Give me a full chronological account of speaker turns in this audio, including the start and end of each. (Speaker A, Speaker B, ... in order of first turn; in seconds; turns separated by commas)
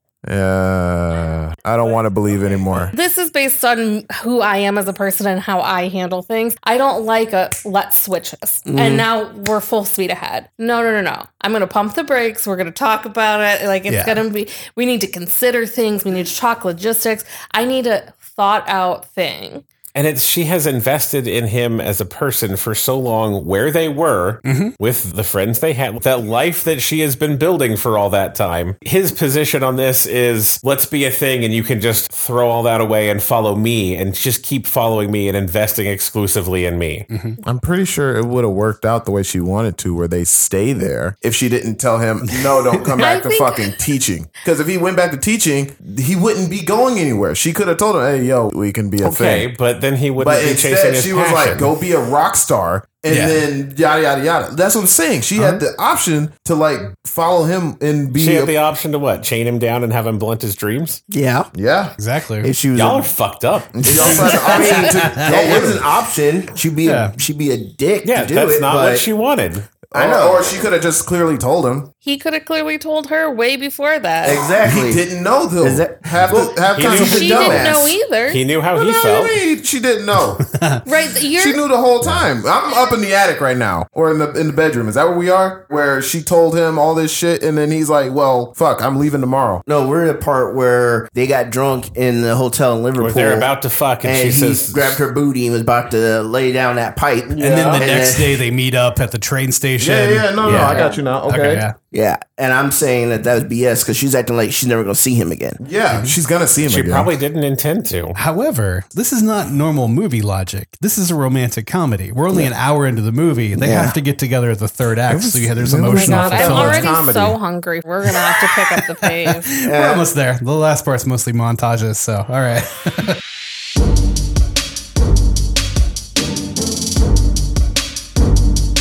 Speaker A: 0.2-2.9, Speaker B: 2.6-2.9, Speaker C: 2.9-19.6, Speaker D: 8.7-9.1, Speaker E: 13.9-14.2, Speaker B: 19.9-37.1, Speaker E: 24.4-24.8, Speaker E: 37.1-37.4, Speaker A: 37.4-49.5, Speaker E: 42.3-42.9, Speaker C: 43.0-43.9, Speaker B: 49.0-51.7, Speaker A: 50.2-58.5, Speaker E: 53.1-53.4, Speaker E: 55.4-55.6, Speaker B: 58.1-61.0, Speaker D: 61.1-61.5, Speaker A: 61.5-62.0, Speaker E: 62.0-62.5, Speaker D: 62.4-63.1, Speaker B: 62.8-64.5, Speaker A: 63.7-65.9, Speaker D: 63.9-69.1, Speaker C: 64.6-65.0, Speaker E: 64.9-65.3, Speaker E: 66.8-67.2, Speaker B: 68.0-69.7, Speaker A: 69.9-71.9, Speaker D: 69.9-70.6, Speaker C: 72.0-74.5, Speaker D: 74.2-75.0, Speaker A: 74.6-77.6, Speaker D: 75.6-78.0, Speaker B: 76.7-77.7, Speaker C: 76.9-78.4, Speaker B: 78.3-79.4, Speaker A: 78.7-80.5, Speaker E: 80.5-80.8, Speaker C: 80.9-81.6, Speaker A: 81.3-89.6, Speaker D: 89.7-93.5, Speaker B: 93.0-95.0, Speaker D: 94.0-98.4, Speaker A: 97.3-97.9, Speaker E: 97.4-101.8, Speaker A: 99.8-101.7, Speaker D: 100.4-101.0, Speaker D: 101.9-105.6, Speaker A: 105.6-107.1, Speaker E: 105.9-106.2, Speaker B: 106.6-108.2, Speaker E: 108.2-117.0, Speaker D: 113.6-114.0, Speaker A: 115.1-117.4, Speaker C: 115.9-119.5, Speaker E: 118.1-123.2, Speaker D: 119.6-120.0